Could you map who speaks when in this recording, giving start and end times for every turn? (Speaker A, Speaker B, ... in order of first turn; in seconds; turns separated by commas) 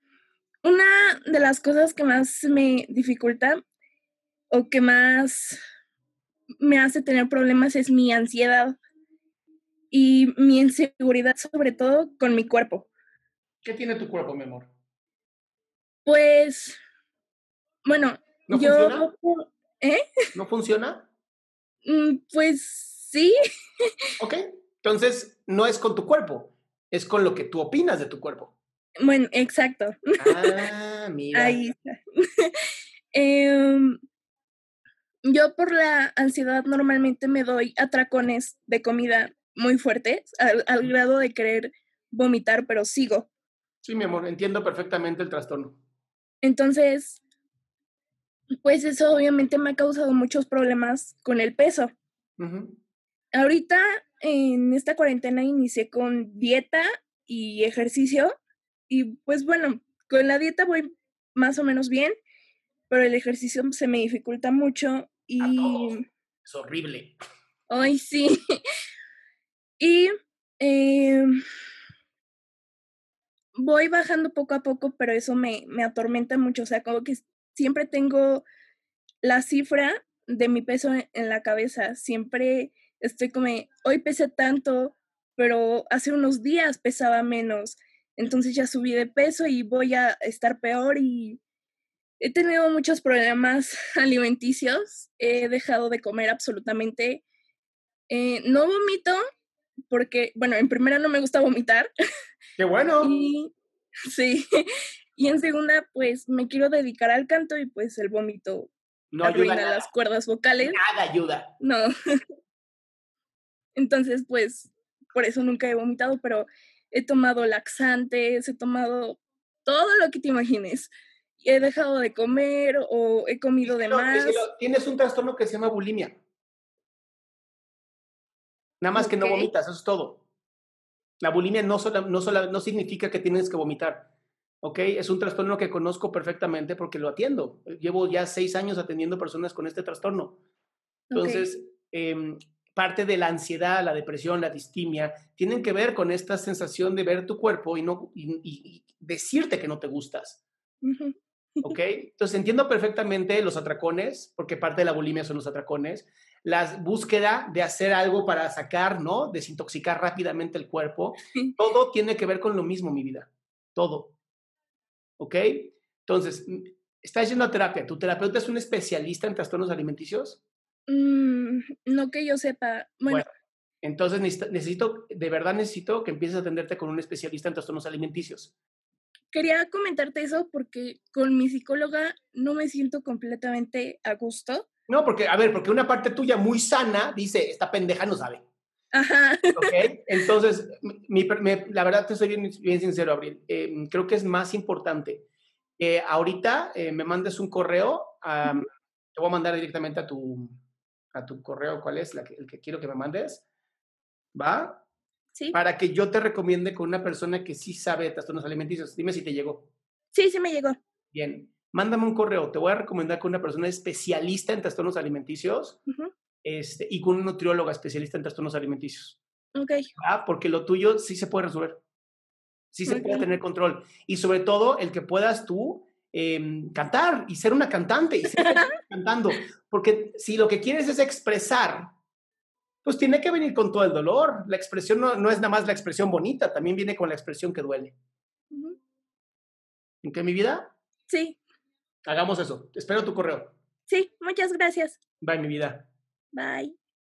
Speaker A: 0.6-3.6, Speaker A: 4.5-5.6, Speaker A: 6.6-8.8, Speaker A: 9.9-12.9, Speaker B: 13.6-14.7, Speaker A: 16.1-16.8, Speaker A: 17.8-20.0, Speaker B: 18.5-19.1, Speaker B: 20.3-21.1, Speaker A: 21.8-23.3, Speaker B: 24.2-28.5, Speaker A: 29.0-30.6, Speaker B: 30.2-31.6, Speaker A: 31.3-34.0, Speaker A: 35.2-43.3, Speaker B: 43.8-45.8, Speaker A: 46.4-47.2, Speaker A: 48.6-51.9, Speaker B: 52.4-52.8, Speaker A: 53.3-58.3, Speaker A: 58.9-62.1, Speaker A: 62.9-66.0, Speaker B: 65.4-67.2, Speaker A: 67.7-68.3, Speaker A: 69.8-71.4, Speaker A: 73.5-78.4, Speaker A: 79.2-91.4, Speaker A: 92.2-97.2, Speaker A: 98.1-99.2, Speaker A: 99.9-101.9, Speaker B: 102.6-103.1, Speaker A: 103.0-103.5, Speaker A: 104.1-104.6, Speaker A: 105.2-108.7, Speaker B: 109.1-109.9, Speaker A: 109.2-110.8, Speaker B: 110.6-111.5, Speaker A: 111.6-111.9, Speaker A: 113.8-124.5, Speaker B: 123.6-126.2, Speaker B: 128.8-130.2, Speaker A: 128.9-129.5, Speaker B: 131.2-134.1, Speaker B: 134.6-140.4, Speaker A: 141.1-141.4, Speaker B: 141.1-150.4, Speaker A: 150.8-151.7, Speaker B: 151.6-164.1, Speaker B: 165.2-170.4, Speaker A: 170.9-173.2, Speaker B: 173.8-178.5, Speaker A: 179.3-184.7, Speaker B: 184.9-188.4, Speaker A: 188.9-189.8, Speaker B: 189.5-195.2, Speaker B: 195.8-200.6, Speaker B: 201.1-203.4, Speaker B: 204.3-204.8, Speaker B: 205.5-209.7, Speaker A: 210.1-210.8, Speaker B: 211.1-215.8, Speaker B: 216.4-219.2, Speaker A: 219.5-219.9, Speaker B: 220.0-221.8, Speaker B: 222.7-231.9, Speaker A: 222.9-223.3, Speaker A: 228.3-228.7, Speaker B: 232.8-237.9, Speaker A: 238.5-238.8, Speaker B: 240.0-240.7, Speaker A: 241.1-241.4, Speaker B: 242.1-243.5, Speaker A: 243.9-245.0, Speaker B: 245.2-245.9, Speaker A: 246.3-246.7